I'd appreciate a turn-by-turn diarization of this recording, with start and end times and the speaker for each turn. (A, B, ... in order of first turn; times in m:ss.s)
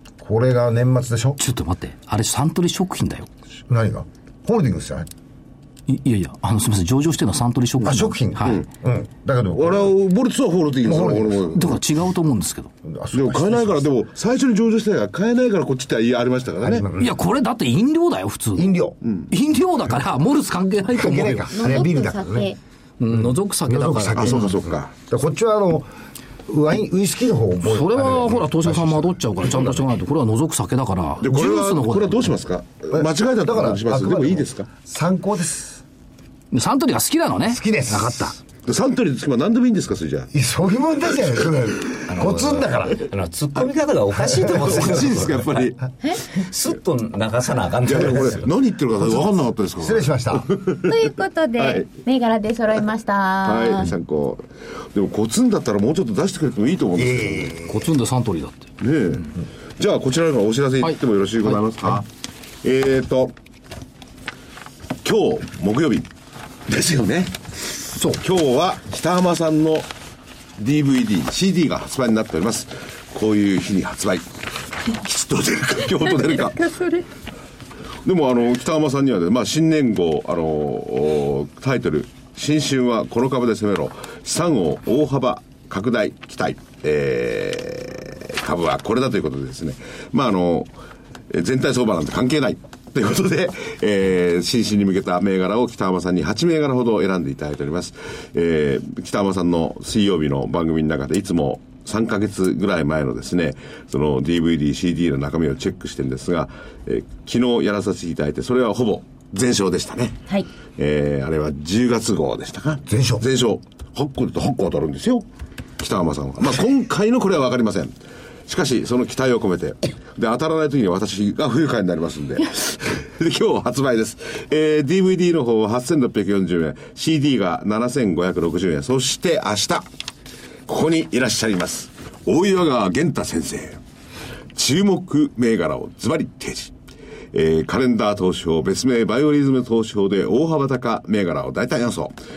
0:00.2-0:01.4 A
0:01.4-0:03.3 B
0:03.7-0:05.1 A
0:05.9-0:08.6 B
0:07.8-0:10.0 A
0:09.5-0:11.8 C
0:10.8-0:11.5 A
0:11.6-0:12.7 B
0:12.8-0:13.9 A
0:13.1-0:16.9 C
0:16.6-0:17.2 A
0:17.0-0:18.8 B
0:18.6-0:19.0 A
0:19.0-0:19.3 C
0:19.3-0:21.5 B
0:21.0-0:22.5 A
0:21.5-0:22.6 D
0:23.0-0:24.5 B
0:23.2-0:25.9 A
0:24.1-0:24.9 C
0:26.5-0:29.9 A
0:27.6-0:32.3 B
0:31.2-0:34.7 C
0:32.9-0:35.8 A
0:36.5-0:38.4 B
0:37.5-0:38.4 A
0:38.6-0:40.3 C
0:40.3-0:43.0 A
0:42.1-0:45.7 E
0:44.5-0:45.8 C
0:46.2-0:48.5 E
0:47.9-0:51.9 C
0:49.0-0:50.5 A
0:50.8-0:53.9 D
0:53.4-0:57.6 C
0:57.0-0:57.9 A
0:57.7-0:58.7 B
0:58.8-1:02.1 C
1:00.8-1:02.0 B
1:02.6-1:03.3 C
1:05.0-1:06.1 C
1:06.7-1:07.4 C
1:08.1-1:09.9 C
1:10.6-1:14.3 C
1:14.9-1:16.7 C
1:16.6-1:17.0 D
1:18.0-1:30.7 C
1:31.3-1:50.2 C
1:50.8-1:55.3 C
1:52.9-1:53.2 A
1:55.8-1:58.0 C
1:58.5-2:09.9 C
2:10.7-2:13.8 C
2:14.6-2:16.7 C
2:17.3-2:22.2 C